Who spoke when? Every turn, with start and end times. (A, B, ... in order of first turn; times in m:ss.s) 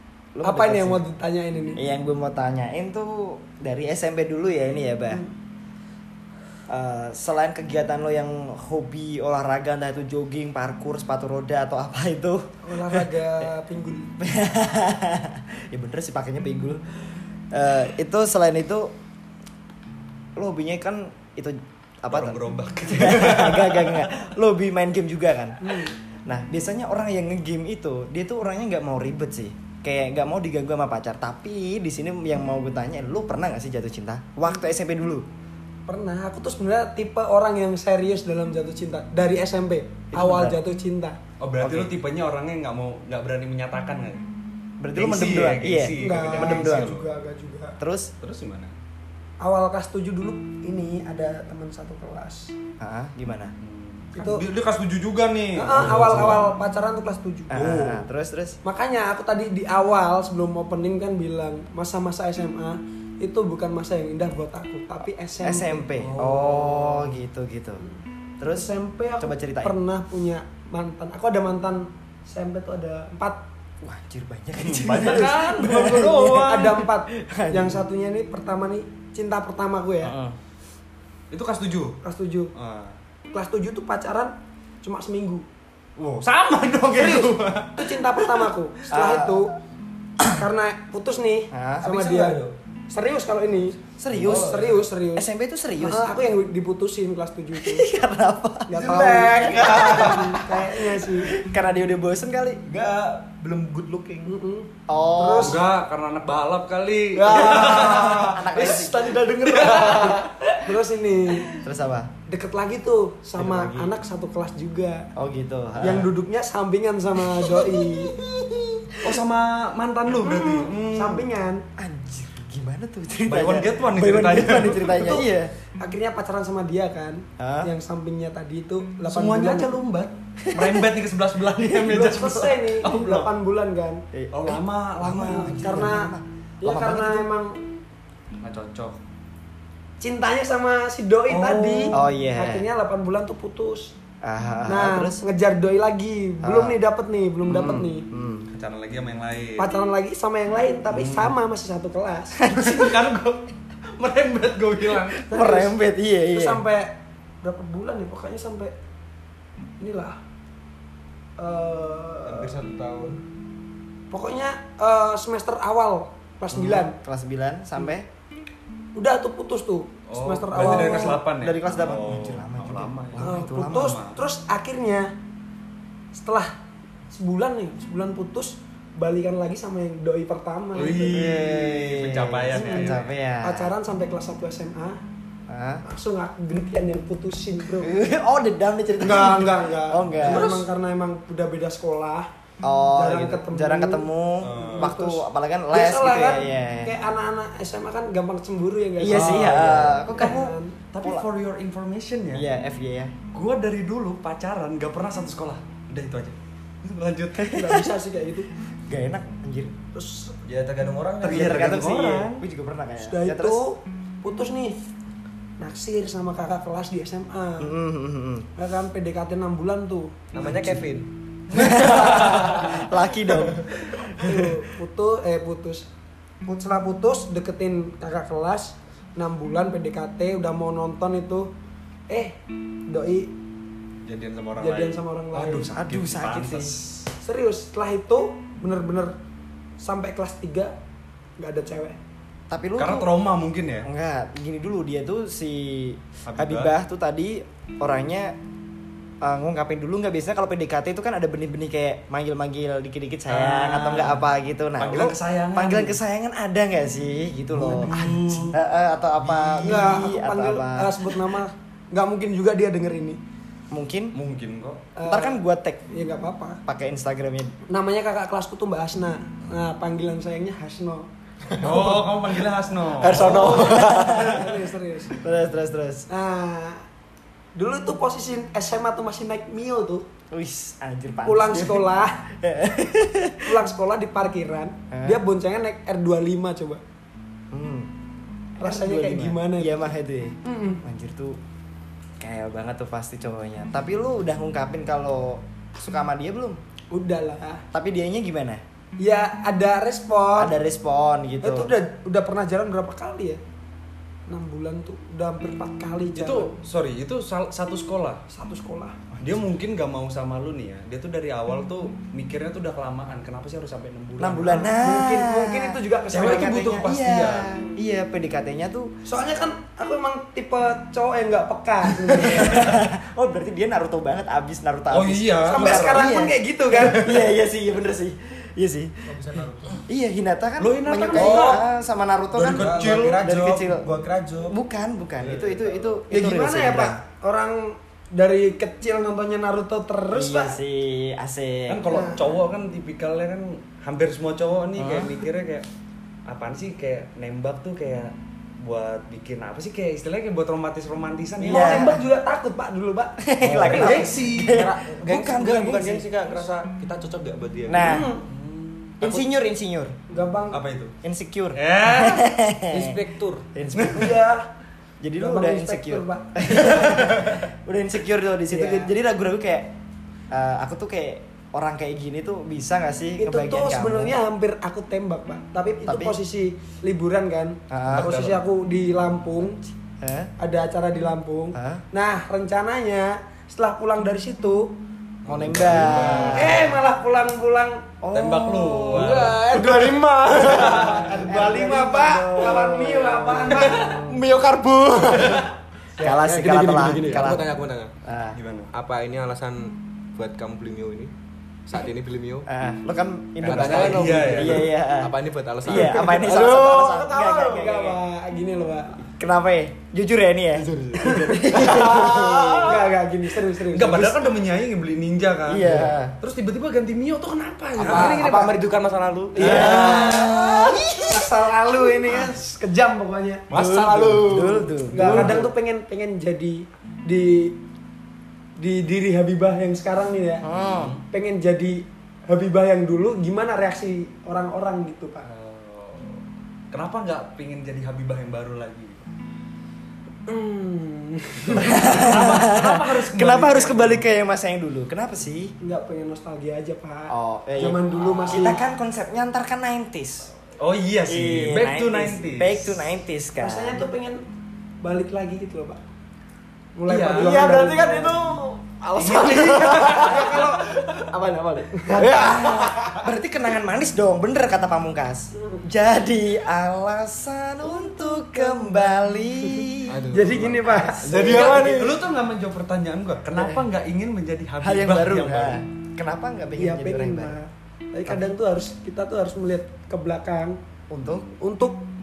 0:00.3-0:01.0 A
0:00.4-0:01.8 B
0:01.8-0:05.2 A
0:06.7-0:13.1 A
0:12.6-0:14.1 B
0:14.2-0:16.8 A
0:17.5-0:18.9 A
0:20.4-0:35.2 A
0:22.1-0:24.1 C
0:25.6-0:25.9 B
0:35.9-0:41.2 B
0:40.1-0:40.6 A
0:41.4-0:44.2 C
0:41.6-0:41.9 A
0:44.8-0:46.9 A
0:44.9-0:47.1 C
0:46.0-0:47.8 B
0:47.8-0:48.1 A
0:48.2-0:48.7 C
0:49.4-0:52.5 B
0:52.8-0:53.5 A
0:53.6-0:56.5 C
0:54.1-0:54.4 B
0:55.6-0:57.7 B
0:55.9-0:56.3 A
0:57.5-0:58.6 A
0:57.6-0:58.0 C
0:58.6-1:05.9 B
1:05.4-1:07.8 A
1:06.0-1:07.1 C
1:08.4-1:09.7 A
1:08.5-1:13.4 B
1:13.8-1:17.8 A
1:14.6-1:16.8 C
1:16.3-1:20.1 B
1:20.0-1:20.3 A
1:21.3-1:22.0 C
1:22.0-1:22.5 B
1:22.5-1:22.9 C
1:23.3-1:25.4 B
1:26.0-1:28.4 C
1:26.9-1:29.5 B
1:28.9-1:29.4 A
1:30.3-1:37.9 B
1:31.5-1:32.0 A
1:31.9-1:32.5 D
1:34.0-1:36.2 A
1:34.2-1:34.8 D
1:37.6-1:42.6 A
1:38.7-1:41.3 B
1:38.8-1:40.2 D
1:42.7-1:44.3 D
1:44.2-1:45.6 B
1:44.9-1:45.6 A
1:45.4-1:48.8 C
1:47.1-1:50.7 D
1:47.6-1:49.1 A
1:49.4-1:50.2 C
1:50.6-1:51.5 B
1:51.6-1:52.1 A
1:52.3-1:55.1 B
1:53.4-1:53.9 A
1:55.2-1:56.1 A
1:55.8-1:58.2 B
1:57.4-1:59.2 A
1:59.0-2:01.3 C
2:00.1-2:01.6 B
2:01.8-2:05.5 A
2:03.2-2:05.2 C
2:04.7-2:05.3 B
2:05.8-2:09.7 B
2:07.4-2:07.7 A
2:09.1-2:13.3 C
2:10.4-2:10.9 A
2:11.7-2:14.0 B
2:14.1-2:17.2 A
2:14.3-2:15.9 C
2:15.6-2:16.1 B
2:16.6-2:17.6 B
2:18.4-2:19.0 C
2:20.0-2:23.9 B
2:21.3-2:21.9 C
2:21.9-2:22.6 A
2:24.2-2:25.2 A
2:24.7-2:28.1 B
2:26.4-2:26.8 A
2:27.5-2:28.5 A
2:28.5-2:29.7 C
2:29.6-2:32.4 B
2:30.9-2:31.3 C
2:32.4-2:33.0 A
2:32.5-2:35.2 C
2:35.1-2:36.6 A
2:35.3-2:35.8 B
2:36.3-2:38.7 B
2:39.8-2:40.2 B
2:41.4-2:42.6 B
2:42.2-2:43.2 D
2:44.1-2:47.0 B
2:46.5-2:48.1 A
2:48.9-2:51.2 B
2:50.1-2:54.2 C
2:50.5-2:54.0 A
2:53.2-2:55.1 B
2:56.1-2:56.5 B
2:57.1-3:01.2 B
3:00.7-3:03.1 C
3:00.9-3:03.7 A
3:02.5-3:05.0 B
3:05.5-3:05.8 A
3:05.8-3:07.9 B
3:07.8-3:10.6 A
3:09.0-3:12.3 B
3:10.2-3:10.6 C
3:12.6-3:16.9 A
3:12.9-3:20.8 B
3:14.4-3:14.9 C
3:19.0-3:21.2 A
3:19.1-3:22.4 C
3:22.3-3:23.1 A
3:23.3-3:27.5 C
3:27.4-3:27.9 A
3:27.5-3:28.5 B
3:28.9-3:29.7 A
3:29.9-3:30.4 B
3:30.4-3:31.8 D
3:31.2-3:32.4 C
3:31.2-3:33.6 A
3:33.0-3:34.8 B
3:35.6-3:37.7 B
3:37.6-3:38.5 A
3:38.6-3:40.2 B
3:40.3-3:42.8 D
3:40.4-3:40.8 A
3:41.5-3:43.7 A
3:44.2-3:45.9 B
3:46.4-3:51.5 B
3:52.1-3:53.3 B
3:54.0-3:57.1 C
3:54.6-3:55.7 B
3:55.8-3:56.8 A
3:57.2-3:59.1 B
3:59.8-4:00.7 B
4:01.4-4:02.0 B
4:02.5-4:03.1 A
4:02.8-4:03.9 C
4:03.8-4:08.3 A
4:06.2-4:06.7 C
4:09.2-4:21.1 A
4:13.3-4:14.2 C
4:14.8-4:16.0 C
4:17.5-4:18.6 C
4:19.2-4:20.0 C
4:19.6-4:23.2 B
4:23.7-4:24.2 A
4:24.1-4:24.8 C
4:25.0-4:26.6 B
4:25.0-4:25.8 A
4:26.6-4:27.5 A
4:27.7-4:31.1 B
4:31.6-4:33.5 C
4:33.0-4:34.3 D
4:33.1-4:34.5 A
4:33.2-4:35.2 B
4:35.2-4:36.1 A
4:36.1-4:36.8 B
4:37.6-4:40.1 B
4:40.3-4:43.5 A
4:41.2-4:42.2 B
4:43.4-4:46.8 B
4:44.9-4:45.2 A
4:47.5-4:47.9 A
4:48.6-4:51.4 A
4:48.6-4:49.7 B
4:50.4-4:50.8 B
4:52.2-4:56.6 A
4:56.9-4:57.6 B
4:57.7-4:58.6 A
4:59.0-5:00.5 B
5:00.4-5:01.7 A
5:01.4-5:03.4 B
5:04.3-5:06.5 B
5:06.1-5:08.2 C
5:08.3-5:09.0 B
5:09.1-5:09.4 A
5:09.2-5:14.7 C
5:14.2-5:18.9 A
5:14.5-5:16.6 B
5:16.1-5:17.5 C
5:19.0-5:22.7 B
5:22.1-5:29.1 A
5:24.9-5:26.1 C
5:25.4-5:27.1 B
5:26.7-5:27.2 C
5:29.1-5:29.8 D
5:29.9-5:33.9 A
5:30.6-5:31.6 C
5:31.1-5:31.6 D
5:32.3-5:33.8 C
5:32.4-5:34.5 D
5:34.5-5:37.0 A
5:35.2-5:35.8 C
5:36.1-5:40.6 B
5:40.1-5:41.9 A
5:41.7-5:45.7 C
5:41.9-5:42.3 B
5:44.8-5:45.2 A
5:46.3-5:52.0 C
5:51.4-5:54.1 B
5:51.4-5:52.0 A
5:53.2-5:56.0 A
5:53.4-5:54.7 C
5:53.6-5:58.0 D
5:57.7-5:58.1 A
5:57.8-5:58.2 B
5:58.2-5:59.0 C
5:59.0-5:59.9 A
5:59.0-5:59.3 D
6:00.1-6:00.6 B
6:00.5-6:00.9 C
6:01.0-6:03.0 A
6:01.5-6:02.2 C
6:02.7-6:03.4 D
6:03.5-6:04.2 A
6:03.7-6:04.1 C
6:03.8-6:04.4 B
6:05.0-6:09.7 A
6:05.2-6:06.6 B
6:08.5-6:08.9 B
6:10.3-6:14.2 A
6:13.2-6:19.6 B
6:15.8-6:16.2 A
6:17.7-6:18.1 A
6:17.9-6:18.4 C
6:20.0-6:20.3 A
6:20.4-6:24.7 B
6:21.5-6:21.8 A
6:25.2-6:26.6 D
6:25.2-6:26.7 A
6:25.3-6:26.6 C
6:26.3-6:27.8 B
6:28.0-6:29.3 A
6:28.1-6:31.2 C
6:28.9-6:31.2 D
6:30.4-6:33.9 B
6:31.2-6:34.2 A
6:33.5-6:37.9 D
6:36.0-6:37.5 A
6:38.0-6:38.4 A
6:38.3-6:38.7 C
6:38.7-6:41.1 D
6:41.6-6:42.5 D
6:42.4-6:48.0 A
6:43.4-6:44.7 C
6:43.4-6:47.7 D
6:47.5-6:49.0 B
6:49.0-6:52.8 A
6:50.5-6:52.8 D
6:52.6-6:54.3 B
6:53.7-6:58.5 C
6:55.5-6:56.1 A
6:57.8-7:00.7 D
6:57.8-6:58.2 B
6:57.8-6:58.5 A
6:59.4-7:03.5 B
6:59.4-7:02.2 A
6:59.4-7:00.1 C
7:03.5-7:05.3 D
7:03.5-7:05.5 A
7:04.9-7:07.6 B
7:05.1-7:05.4 C
7:08.6-7:10.4 B
7:10.4-7:10.9 A
7:10.5-7:11.0 C
7:11.1-7:15.2 B
7:15.2-7:16.2 C
7:16.7-7:19.0 C
7:20.3-7:22.1 B
7:21.5-7:24.0 C
7:21.5-7:25.5 A
7:25.6-7:28.6 B
7:27.1-7:30.3 A
7:30.6-7:32.8 C
7:31.1-7:33.8 A
7:33.4-7:34.2 B
7:34.8-7:35.8 B
7:36.8-7:38.2 B
7:36.9-7:37.4 C
7:37.1-7:43.1 D
7:39.0-7:40.6 C
7:40.1-7:40.5 B
7:41.8-7:42.1 B
7:41.9-7:50.1 A
7:49.8-7:52.0 D
7:50.1-7:51.6 B
7:50.6-7:51.4 A
7:51.1-7:55.6 C
7:53.3-7:53.6 A
7:54.6-7:57.4 A
7:56.6-8:00.6 B
8:00.9-8:01.3 A
8:01.0-8:01.3 C
8:01.4-8:01.8 B